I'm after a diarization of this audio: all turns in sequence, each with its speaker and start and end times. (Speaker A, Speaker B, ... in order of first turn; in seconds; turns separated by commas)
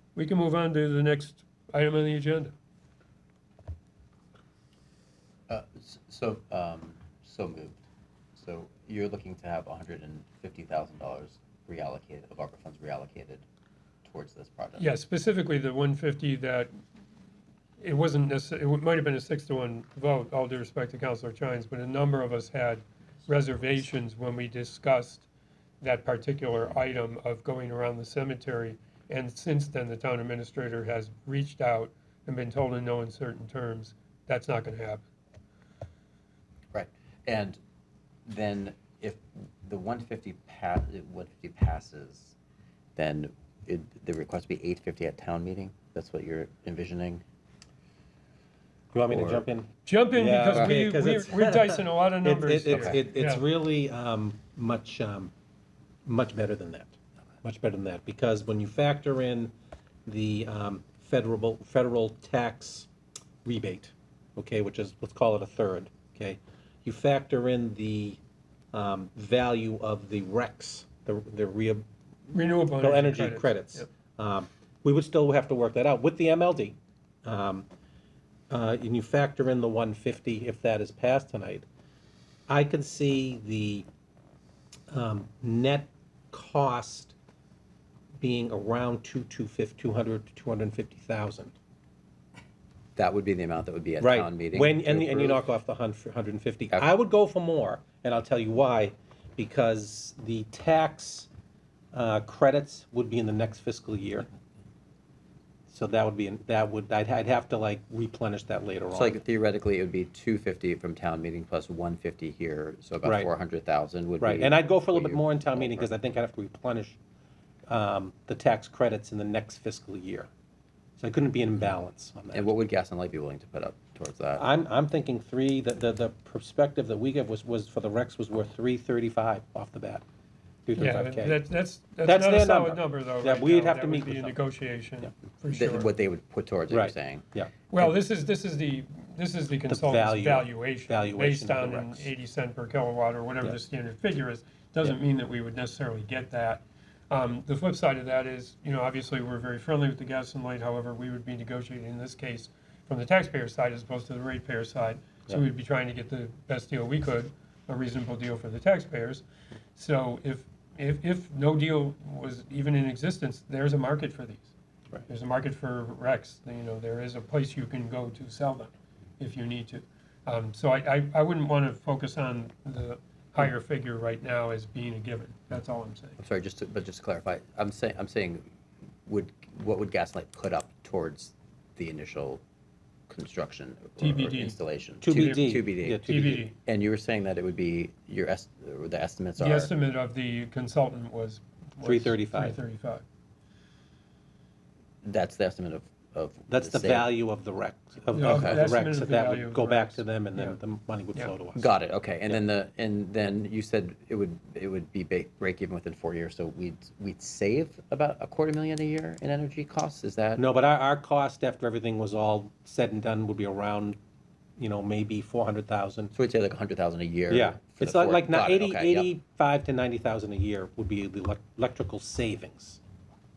Speaker A: 0.1-2.5, Speaker B: 5.5-7.8, Speaker B: 8.4-13.4, Speaker B: 14.1-14.9, Speaker A: 14.8-16.7, Speaker A: 17.8-25.3, Speaker A: 25.8-35.0, Speaker B: 36.7-37.6, Speaker B: 38.3-42.3, Speaker B: 43.0-47.2, Speaker C: 48.9-55.3, Speaker B: 49.1-49.5, Speaker A: 49.9-53.4, Speaker B: 52.7-53.0, Speaker C: 56.1-59.5, Speaker C: 60.1-62.9, Speaker C: 63.5-68.2, Speaker C: 68.7-71.8, Speaker A: 72.3-73.9, Speaker C: 72.4-77.7, Speaker C: 78.5-81.7, Speaker C: 82.5-83.9, Speaker C: 84.9-87.1, Speaker C: 88.2-91.5, Speaker B: 93.0-95.4, Speaker C: 94.0-101.3, Speaker C: 101.9-104.3, Speaker C: 105.7-109.2, Speaker B: 108.9-115.9, Speaker C: 113.0-113.3, Speaker C: 114.2-117.0, Speaker C: 117.7-120.3, Speaker C: 121.0-122.5, Speaker B: 122.3-124.5, Speaker C: 124.4-130.0, Speaker C: 130.7-131.4, Speaker A: 130.8-135.9, Speaker C: 132.0-134.4, Speaker B: 135.5-137.2, Speaker C: 136.7-137.9, Speaker A: 137.7-159.2, Speaker C: 139.7-142.1, Speaker A: 159.8-164.5, Speaker A: 165.1-176.2, Speaker B: 176.2-178.5, Speaker B: 179.1-182.4, Speaker B: 183.1-186.0, Speaker A: 184.0-186.5, Speaker C: 185.0-186.5, Speaker B: 186.7-189.7, Speaker A: 189.4-193.0, Speaker C: 191.8-192.6, Speaker B: 195.0-197.1, Speaker C: 196.5-201.7, Speaker A: 198.1-200.6, Speaker B: 198.2-198.7, Speaker B: 201.6-210.4, Speaker C: 210.4-214.0, Speaker C: 214.6-216.1, Speaker B: 216.1-219.1, Speaker C: 217.3-222.8